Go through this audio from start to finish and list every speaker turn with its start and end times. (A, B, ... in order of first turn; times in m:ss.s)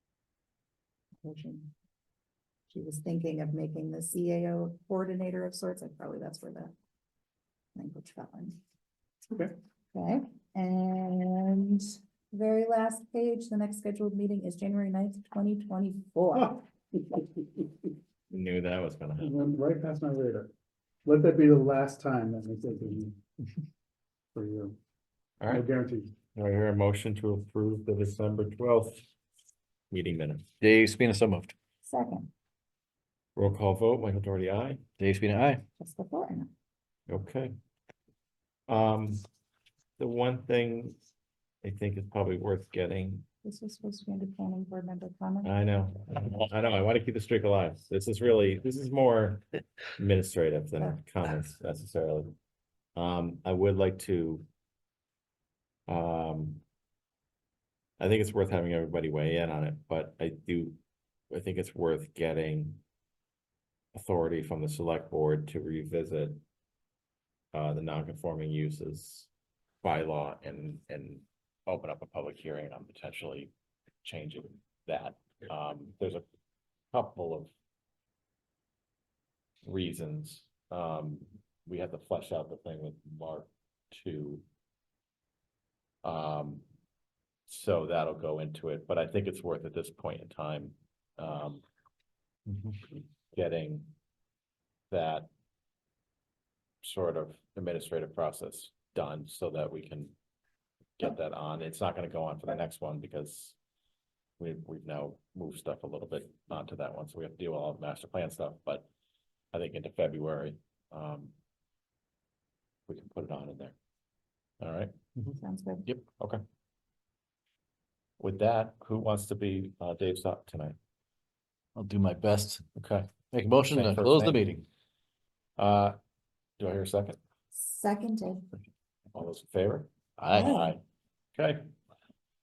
0:01.2-0:01.7 A
0:02.7-0:06.7 A
0:07.8-0:08.6 A
0:09.9-0:16.6 A
0:17.1-0:17.4 B
0:18.3-0:19.4 C
0:19.2-0:20.5 B
0:21.0-0:23.2 B
0:24.3-0:24.8 B
0:25.5-0:26.2 B
0:26.4-0:29.1 C
0:29.9-0:30.5 C
0:30.6-0:31.5 D
0:31.8-0:32.3 A
0:33.4-0:34.8 C
0:35.0-0:35.6 D
0:35.8-0:36.5 A
0:37.1-0:37.5 C
0:38.7-0:39.2 C
0:40.0-0:41.0 C
0:41.6-0:43.2 C
0:43.4-0:45.5 A
0:45.4-0:52.4 C
0:53.0-0:54.5 C
0:55.9-0:56.6 C
0:58.0-1:00.8 C
1:01.3-1:02.8 C
1:03.9-1:06.4 C
1:07.5-1:09.3 C
1:09.8-1:13.5 C
1:14.0-1:16.2 C
1:16.9-1:17.5 C
1:19.6-1:24.4 C
1:26.0-1:26.6 C
1:27.5-1:31.6 C
1:32.9-1:33.9 C
1:34.9-1:35.3 C
1:36.8-1:40.1 C
1:41.0-1:43.6 C
1:44.4-1:48.9 C
1:49.5-1:51.3 C
1:52.9-1:53.8 C
1:54.6-1:55.0 C
1:55.4-1:55.9 A
1:58.2-2:00.8 C
2:01.8-2:04.6 D
2:02.8-2:03.1 C
2:03.7-2:04.4 C
2:05.6-2:06.0 C
2:06.6-2:07.2 C
2:07.5-2:08.5 A
2:09.1-2:10.8 C
2:10.2-2:10.6 D
2:10.3-2:10.8 A
2:11.4-2:11.7 C